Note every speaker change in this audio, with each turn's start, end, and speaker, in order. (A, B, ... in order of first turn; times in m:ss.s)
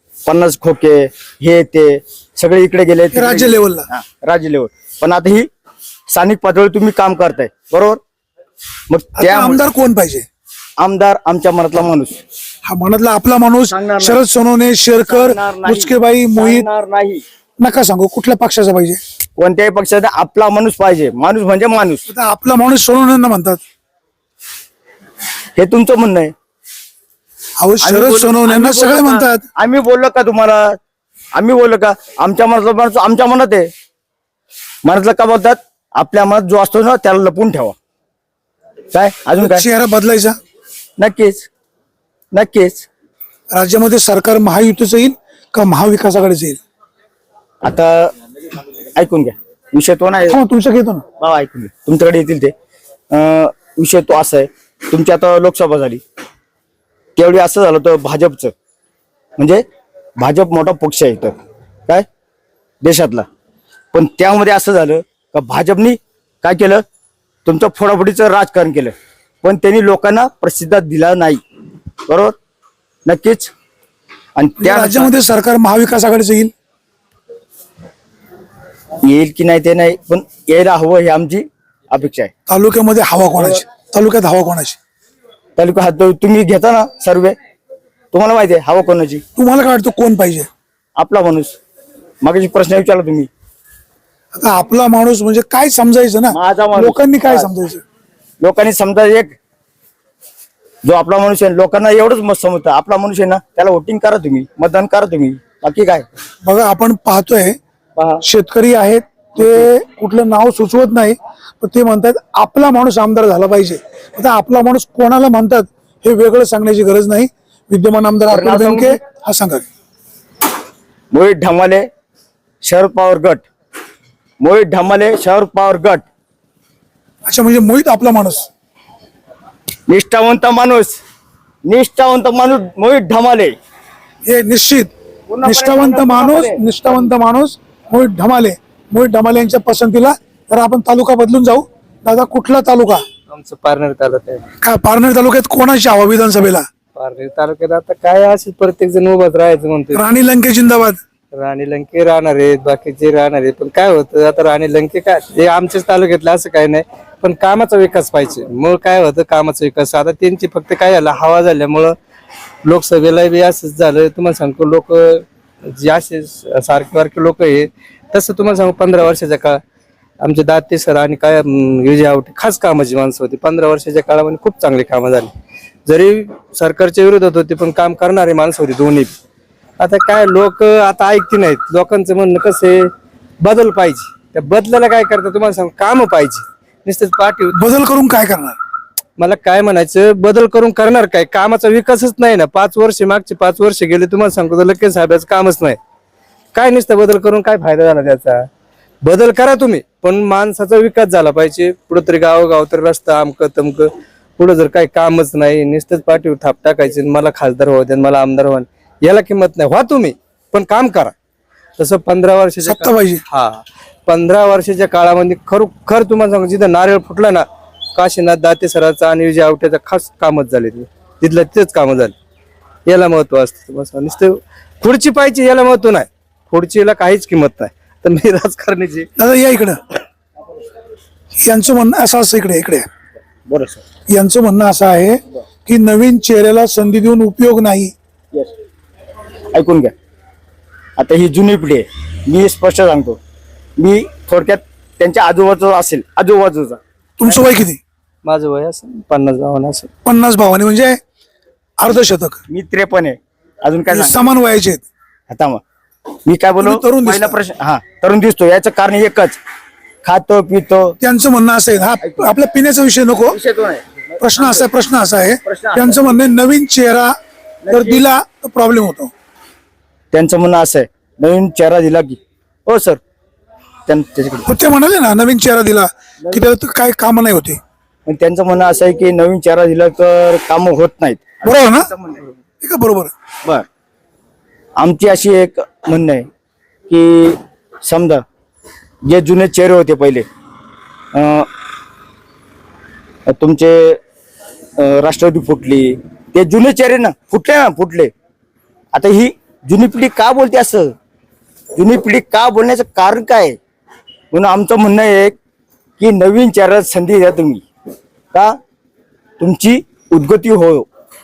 0:00.2-0:05.5 A
0:03.1-0:03.9 B
0:06.1-0:08.0 A
0:08.9-0:09.6 A
0:09.2-0:10.2 B
0:10.8-0:12.2 A
0:12.6-0:16.7 B
0:13.7-0:14.2 A
0:15.0-0:17.2 A
0:17.6-0:19.0 B
0:19.4-0:22.1 A
0:22.1-0:23.6 B
0:25.6-0:26.3 A
0:27.6-0:29.4 B
0:27.8-0:30.8 A
0:31.3-0:33.7 A
0:34.8-0:37.8 A
0:38.9-0:39.6 A
0:39.4-0:40.4 B
0:41.0-0:41.5 A
0:42.3-0:42.9 A
0:43.5-0:46.6 B
0:47.6-0:48.1 A
0:49.0-0:50.4 A
0:50.3-0:51.0 B
0:51.2-0:52.5 A
0:53.1-0:56.0 A
0:57.2-0:58.5 A
0:59.4-0:59.6 A
1:00.2-1:01.4 A
1:02.8-1:03.2 A
1:03.9-1:06.8 A
1:07.4-1:11.4 A
1:12.1-1:12.3 A
1:13.1-1:13.5 A
1:14.4-1:15.1 A
1:14.6-1:16.5 B
1:19.0-1:22.3 A
1:22.5-1:24.8 B
1:25.6-1:27.4 A
1:28.1-1:29.2 A
1:29.4-1:30.5 B
1:31.0-1:31.6 A
1:32.2-1:33.3 A
1:34.3-1:37.8 B
1:36.3-1:37.5 A
1:38.4-1:39.4 A
1:40.8-1:46.1 A
1:46.4-1:47.6 B
1:48.0-1:48.2 A
1:48.2-1:59.6 B
1:49.4-1:49.7 A
1:58.3-1:59.0 A
2:01.1-2:01.9 A
2:02.6-2:03.4 A
2:04.4-2:06.0 A
2:07.2-2:08.5 B
2:09.9-2:11.0 A
2:11.6-2:13.6 A
2:14.2-2:14.9 B
2:15.3-2:17.0 A
2:15.4-2:23.0 B
2:23.3-2:24.4 C
2:24.6-2:26.6 B
2:26.9-2:30.0 C
2:29.9-2:31.0 B
2:31.3-2:41.9 C
2:42.6-2:49.6 C
2:50.2-2:55.3 C
2:55.9-2:59.1 C
2:59.8-3:07.6 C
3:07.5-3:08.6 B
3:09.2-3:15.8 C
3:16.5-3:18.5 C
3:19.0-3:31.1 C
3:31.8-3:42.1 C
3:32.6-3:33.2 B
3:42.9-3:49.1 C
3:49.2-3:49.8 B
3:51.4-3:52.9 B
3:53.5-3:53.8 A
3:54.1-3:57.9 B
3:59.5-3:59.9 A
4:01.0-4:03.2 A
4:03.8-4:06.8 A
4:07.2-4:07.8 B
4:08.2-4:09.9 C
4:10.0-4:11.0 B
4:11.8-4:12.4 B
4:12.5-4:14.2 A
4:13.9-4:14.8 B
4:15.3-4:15.6 A
4:16.2-4:19.4 A
4:16.6-4:17.4 B
4:20.0-4:21.0 A
4:21.0-4:23.4 B
4:22.0-4:22.3 A
4:23.3-4:24.7 A
4:24.2-4:27.1 B
4:25.4-4:26.1 A
4:27.6-4:28.1 A
4:27.7-4:29.1 B
4:30.1-4:33.0 A
4:33.9-4:34.5 A
4:34.4-4:37.6 B
4:38.1-4:42.3 A
4:41.4-4:41.9 B
4:42.6-4:43.1 B
4:44.8-4:46.3 A
4:46.9-4:48.2 A
4:49.0-4:50.2 A
4:51.1-4:51.5 A
4:53.3-4:54.0 A
4:54.8-4:58.1 A
4:58.9-5:00.9 A
5:01.8-5:03.6 A
5:04.3-5:05.4 A
5:06.0-5:07.6 A
5:09.4-5:10.9 A